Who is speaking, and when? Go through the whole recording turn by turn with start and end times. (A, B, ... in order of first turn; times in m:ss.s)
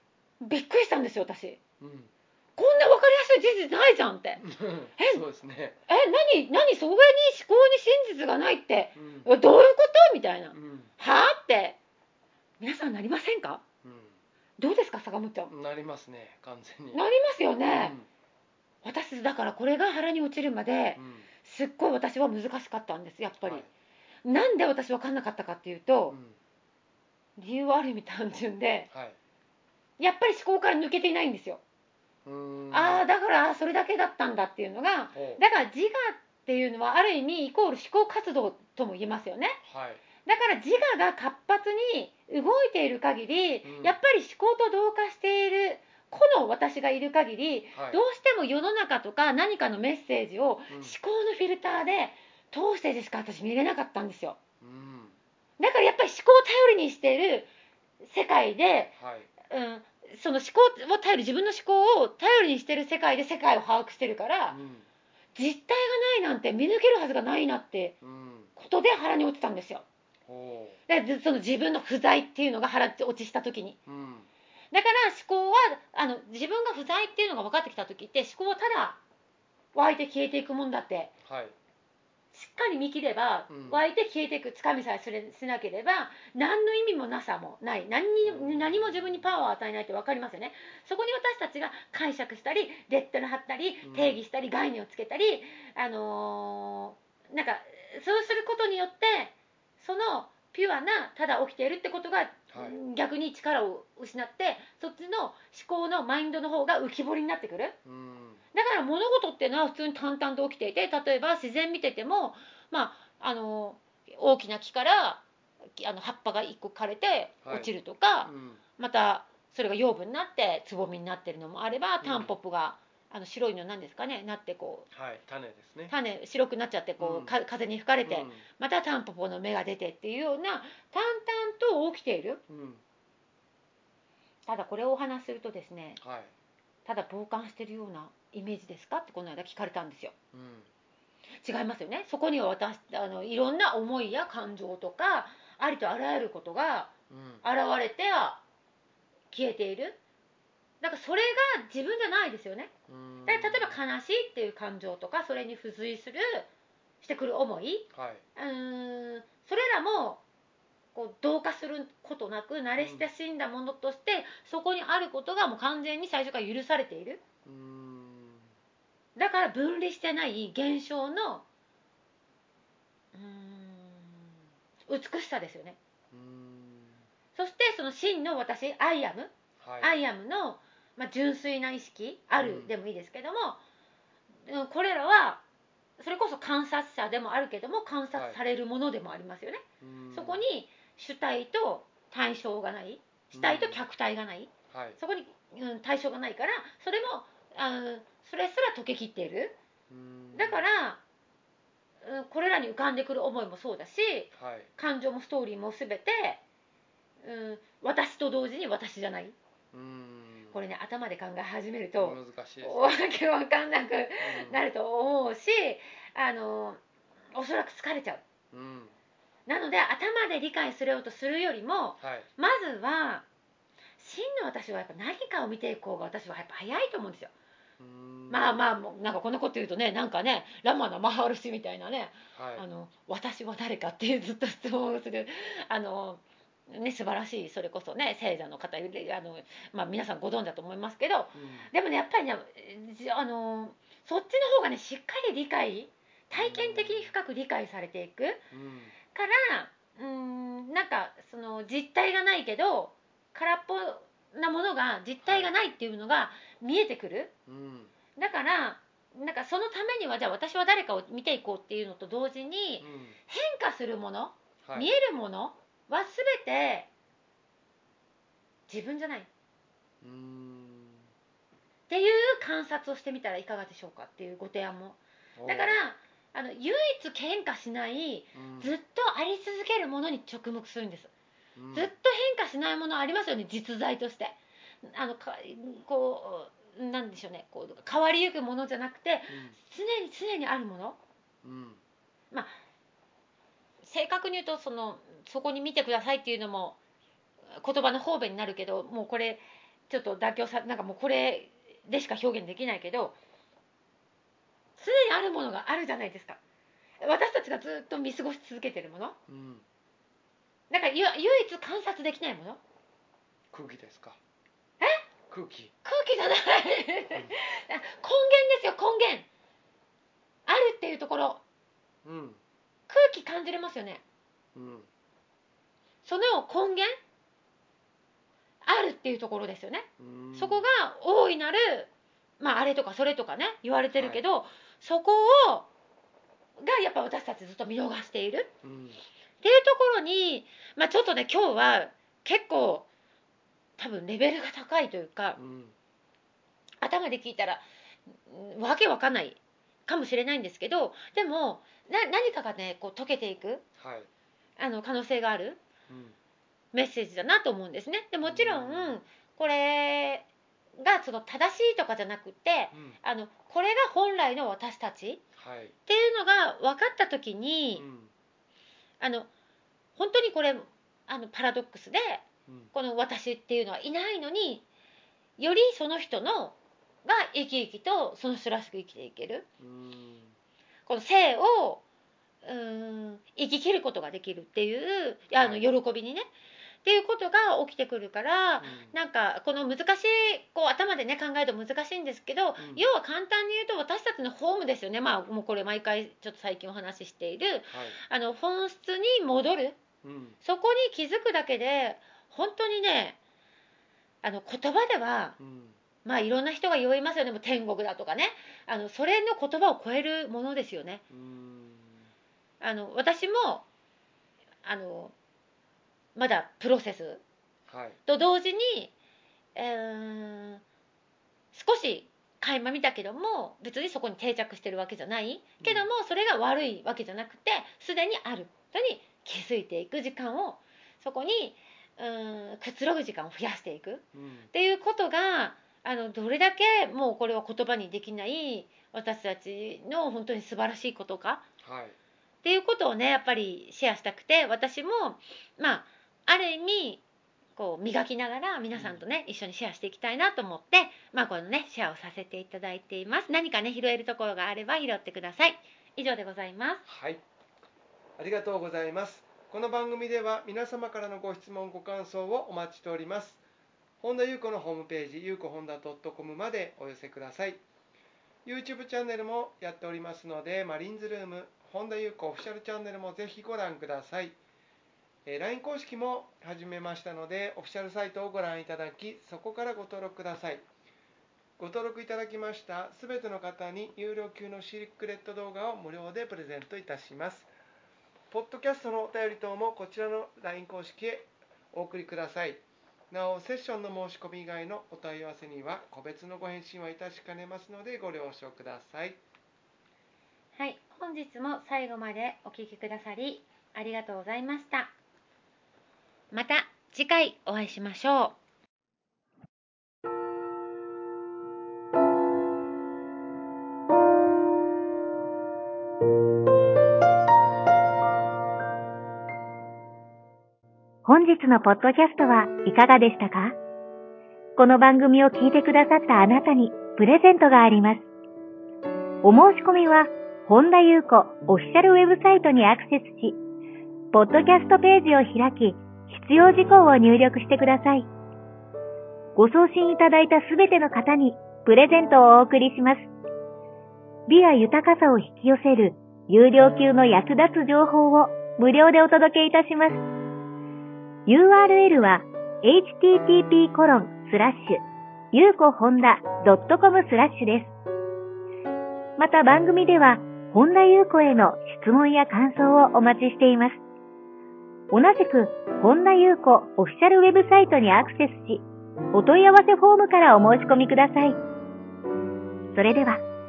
0:00.4-0:01.6 A
0:01.8-0:02.1 B
0:02.6-0:04.4 A
0:04.4-0:05.8 B
0:05.0-0:05.2 A
0:05.9-0:11.8 A
0:09.0-0:09.3 B
0:10.5-0:10.9 B
0:12.6-0:13.6 A
0:13.8-0:14.2 B
0:14.6-0:15.5 A
0:15.5-0:17.0 B
0:16.9-0:18.0 A
0:17.7-0:18.1 B
0:18.8-0:23.6 A
0:21.0-0:21.3 B
0:23.4-0:23.7 B
0:24.2-0:26.2 A
0:26.1-0:26.4 B
0:27.4-0:28.9 A
0:28.9-0:29.2 B
0:30.0-0:31.6 A
0:32.2-0:33.0 B
0:32.7-0:39.6 A
0:35.1-0:35.4 B
0:39.6-0:40.0 B
0:40.2-0:54.4 A
0:43.6-0:44.0 B
0:47.7-0:48.0 B
0:50.7-0:50.9 B
0:54.6-0:55.2 B
0:55.6-0:58.9 A
0:59.0-0:59.3 B
0:59.5-1:04.6 A
1:04.5-1:04.8 B
1:05.4-1:08.0 A
1:08.0-1:08.5 B
1:08.6-1:09.8 A
1:10.2-1:10.8 B
1:10.9-1:13.8 A
1:13.9-1:14.3 B
1:14.7-1:19.0 A
1:19.7-1:21.1 A
1:21.2-1:21.5 B
1:22.3-1:47.8 A
1:23.5-1:23.8 B
1:28.2-1:29.3 B
1:33.8-1:34.2 B
1:42.5-1:42.8 B
1:47.8-1:48.4 B
1:48.5-1:55.2 A
1:55.8-2:04.9 A
1:57.4-1:57.7 B
1:58.2-1:58.6 B
2:02.0-2:02.3 B
2:04.9-2:05.9 B
2:05.9-2:12.4 A
2:07.0-2:07.3 B
2:08.0-2:08.4 B
2:12.5-2:12.8 B
2:14.4-2:16.0 A
2:16.0-2:16.3 B
2:16.8-2:20.1 A
2:20.3-2:20.7 B
2:21.4-2:26.9 A
2:27.1-2:27.4 B
2:27.4-2:28.4 A
2:29.3-2:30.0 A
2:30.8-2:32.7 A
2:32.9-2:33.8 B
2:33.2-2:36.5 A
2:37.0-2:40.2 A
2:37.9-2:38.2 B
2:40.9-2:47.2 A
2:42.8-2:43.1 B
2:47.4-2:48.5 B
2:49.2-2:51.4 A
2:53.1-2:54.4 A
2:54.9-2:55.8 A
2:56.1-2:57.0 B
2:57.3-3:03.6 A
2:59.6-2:59.9 B
3:02.4-3:02.7 B
3:04.4-3:05.4 A
3:06.0-3:19.6 A
3:09.8-3:10.4 B
3:13.3-3:13.8 B
3:14.7-3:15.0 B
3:19.9-3:20.6 B
3:20.3-3:21.0 A
3:22.0-3:26.4 A
3:24.4-3:24.7 B
3:27.2-3:29.3 A
3:29.7-3:30.6 B
3:30.5-3:36.8 A
3:32.0-3:33.0 B
3:34.2-3:34.6 B
3:37.3-3:38.2 A
3:38.5-3:39.0 B
3:39.5-3:43.2 A
3:42.0-3:42.3 B
3:44.0-3:47.3 A
3:47.8-3:48.7 B
3:48.3-4:08.4 A
3:52.3-3:52.6 B
4:01.3-4:01.7 B
4:06.3-4:07.1 B
4:08.5-4:08.9 B
4:09.1-4:17.3 A
4:15.2-4:15.5 B
4:17.5-4:17.9 B
4:18.2-4:26.9 A
4:22.8-4:23.2 B
4:24.6-4:24.9 B
4:28.7-4:29.3 A
4:30.0-4:31.0 B
4:31.9-4:41.1 A
4:35.4-4:35.8 B
4:38.4-4:38.7 B
4:41.6-4:41.9 B
4:41.7-4:51.0 A
4:49.3-4:49.6 B
4:51.4-4:51.8 B
4:53.8-4:56.8 A
4:57.6-5:03.2 A
5:04.8-5:06.4 A
5:07.0-5:09.2 A
5:09.3-5:09.6 B
5:10.7-5:12.6 A
5:13.5-5:14.2 B
5:15.3-5:15.7 B
5:15.8-5:19.2 A
5:20.5-5:21.4 A
5:22.0-5:22.4 B
5:22.9-5:24.0 A
5:24.5-5:24.9 B
5:26.0-5:26.9 A
5:28.6-5:35.7 A
5:30.0-5:30.6 B
5:33.9-5:34.2 B
5:36.6-5:38.5 A
5:38.6-5:39.0 B
5:39.4-5:42.9 A
5:43.8-5:45.4 A
5:45.4-5:45.7 B
5:46.8-5:47.6 A
5:48.2-5:53.6 A
5:53.8-5:54.1 B
5:54.6-5:55.6 A
5:55.9-5:56.2 B
5:56.7-6:00.3 A
5:58.2-5:59.0 B
6:00.8-6:05.2 A
6:05.4-6:05.7 B
6:05.9-6:07.8 A
6:07.7-6:08.1 B
6:09.0-6:09.3 A
6:10.0-6:14.6 A
6:12.5-6:12.7 B
6:15.4-6:19.5 A
6:19.6-6:20.4 B
6:20.9-6:21.8 A
6:22.4-6:26.2 A
6:25.4-6:25.6 B
6:26.8-6:39.8 A
6:28.6-6:28.9 B
6:32.6-6:32.9 B
6:37.7-6:38.0 B
6:40.0-6:40.4 B
6:40.4-6:43.2 A
6:44.2-6:45.4 A
6:45.4-6:45.8 B
6:46.0-6:51.0 A
6:51.1-6:52.1 B
6:52.6-6:53.6 A
6:54.6-6:55.1 A
6:56.2-6:57.2 A
6:57.7-6:58.0 B
6:58.1-6:58.9 A
6:59.5-7:00.6 A
7:01.5-7:21.4 A
7:05.6-7:05.9 B
7:14.1-7:14.5 B
7:21.6-7:22.0 B
7:22.4-7:27.0 A
7:27.6-7:36.8 A
7:28.7-7:29.0 B
7:36.8-7:37.2 B
7:38.2-7:43.4 B
7:44.0-7:47.6 B
7:48.4-7:54.4 B
7:55.2-8:00.6 B
8:01.6-8:07.5 B
8:08.3-8:19.2 B
8:20.6-8:24.9 A
8:26.3-8:28.4 A
8:41.0-8:43.6 C
8:44.6-8:48.1 C
8:49.2-8:53.4 C
8:54.1-8:58.1 C
8:59.4-9:03.1 C
9:04.3-9:10.0 C
9:11.3-9:14.8 C
9:15.3-9:17.7 C
9:19.2-9:23.8 C
9:24.9-9:31.4 C
9:32.7-9:33.2 C